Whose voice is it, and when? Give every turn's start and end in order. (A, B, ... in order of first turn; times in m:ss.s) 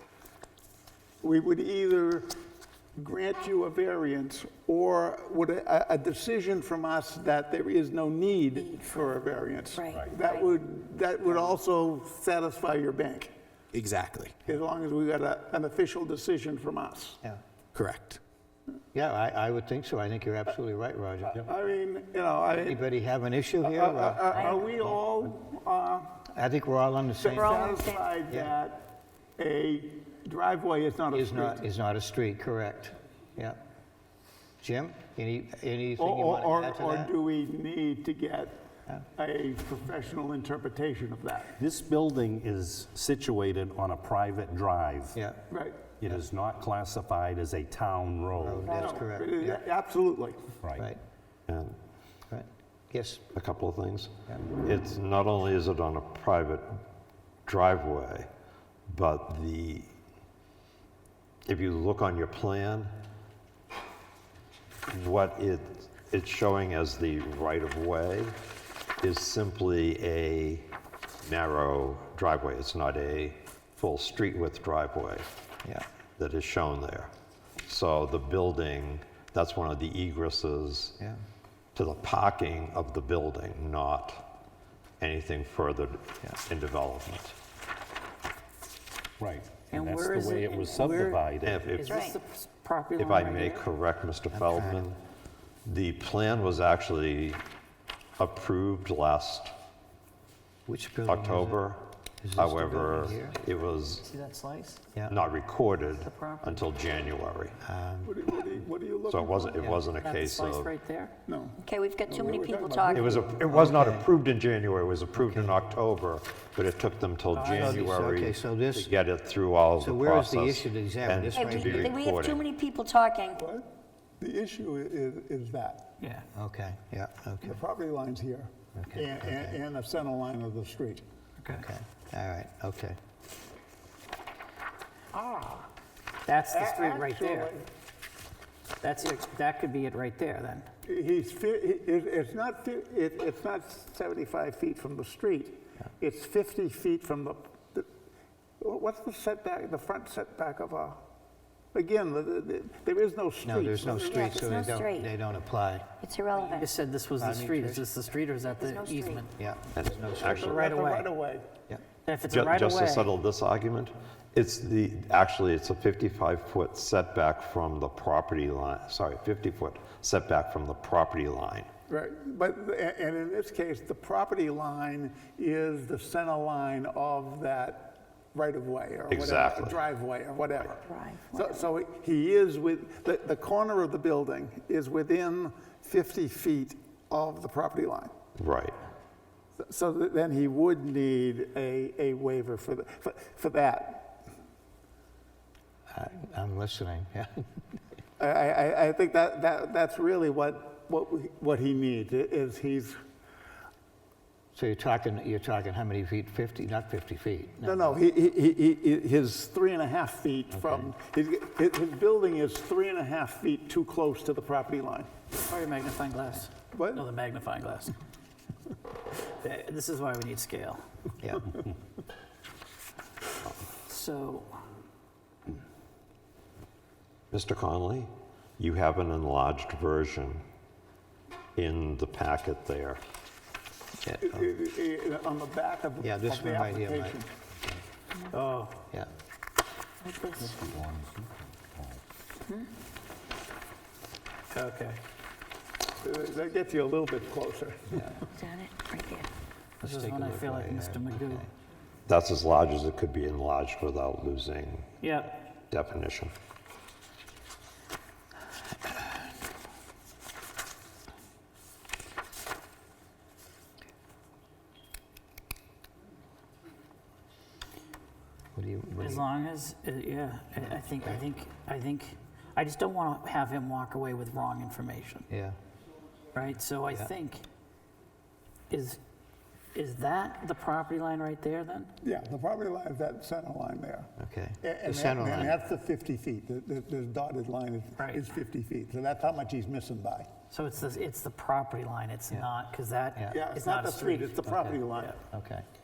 0:01.2-0:02.3 A
0:03.0-0:13.3 A
0:08.6-0:09.2 B
0:09.7-0:10.5 B
0:09.9-0:10.1 C
0:14.4-0:17.2 A
0:18.9-0:21.4 D
0:21.3-0:22.8 A
0:22.6-0:24.8 D
0:23.6-0:26.2 A
0:24.3-0:24.6 B
0:26.3-0:27.7 D
0:27.2-0:31.6 A
0:27.3-0:28.0 B
0:31.1-0:33.6 D
0:34.6-0:37.1 D
0:36.0-0:41.6 A
0:41.6-0:45.2 C
0:45.1-0:45.4 D
0:45.5-0:45.9 A
0:46.0-0:48.7 C
0:48.4-0:49.6 D
0:48.7-0:50.5 A
0:50.6-0:50.9 C
0:51.5-0:51.8 E
0:52.3-0:53.3 D
0:53.3-0:54.1 E
0:54.6-0:56.8 E
0:57.4-0:58.3 E
0:58.9-0:59.9 E
1:01.4-1:02.9 E
1:04.9-1:08.4 E
1:09.0-1:10.7 E
1:11.2-1:15.3 E
1:16.2-1:17.1 E
1:17.6-1:21.0 E
1:21.7-1:24.4 E
1:25.0-1:27.4 E
1:29.2-1:31.8 C
1:29.7-1:33.6 F
1:31.4-1:32.1 E
1:31.8-1:32.2 B
1:33.0-1:35.0 E
1:34.3-1:34.9 D
1:35.6-1:37.4 E
1:38.2-1:39.5 E
1:40.7-1:41.6 D
1:41.1-1:41.8 E
1:42.2-1:43.4 D
1:42.4-1:44.0 E
1:43.9-1:44.8 F
1:45.1-1:47.6 E
1:46.0-1:46.7 F
1:47.6-1:48.3 D
1:48.0-1:49.8 A
1:49.1-1:50.7 E
1:50.0-1:51.1 F
1:51.2-1:53.3 A
1:51.6-1:53.4 B
1:52.9-2:02.4 E
1:53.5-1:54.1 D
1:55.1-1:55.6 D
1:57.3-1:57.9 F
1:57.5-1:59.0 D
1:59.8-2:02.0 D
2:01.3-2:03.4 B
2:03.3-2:05.9 A
2:06.0-2:06.2 F
2:06.3-2:07.6 D
2:07.4-2:11.0 A
2:08.8-2:09.6 D
2:11.4-2:11.6 F
2:11.5-2:13.0 D
2:15.1-2:15.6 A
2:16.2-2:17.5 F
2:16.5-2:17.6 A
2:18.8-2:20.7 F
2:20.8-2:27.9 A
2:28.6-2:31.0 A
2:31.7-2:34.8 A
2:33.4-2:35.9 D
2:34.0-2:35.1 B
2:36.0-2:36.7 B
2:36.5-2:39.3 F
2:37.2-2:38.0 D
2:38.6-2:39.3 B
2:39.4-2:40.6 D
2:39.7-2:40.7 E
2:40.2-2:41.5 A
2:40.5-2:41.1 F
2:42.0-2:43.1 F
2:42.2-2:51.7 E
2:51.9-3:08.1 A
2:59.1-2:59.8 E
3:00.8-3:01.6 B
3:08.4-3:08.7 E
3:09.6-3:14.2 A
3:15.9-3:17.4 D
3:18.2-3:23.0 A
3:24.5-3:28.0 D
3:27.6-3:35.1 A
3:30.5-3:30.9 D
3:35.5-3:37.9 F
3:36.7-3:37.0 A
3:39.4-3:40.8 F
3:41.2-3:41.5 D
3:43.8-3:44.6 F
3:47.3-3:50.4 E
3:51.6-3:53.0 E
3:54.0-3:54.5 D
3:54.2-3:57.3 A
3:56.0-3:57.8 D
3:58.3-3:58.8 F
4:00.0-4:00.5 B
4:00.4-4:02.0 C
4:04.5-4:05.0 F
4:06.0-4:08.2 A
4:08.2-4:09.3 B
4:09.8-4:11.4 F
4:09.8-4:11.5 D
4:12.1-4:14.9 E
4:15.0-4:15.4 F
4:15.7-4:16.3 E
4:28.5-4:29.3 D
4:29.0-4:35.3 F
4:30.9-4:31.2 D
4:35.3-4:35.6 D
4:36.3-4:37.4 F
4:38.7-4:39.0 F
4:39.7-4:41.9 F
4:42.0-4:50.3 A
4:44.2-4:45.6 D
4:48.0-4:48.3 F
4:50.5-4:55.1 F
4:53.3-4:55.1 A
4:54.5-4:55.6 D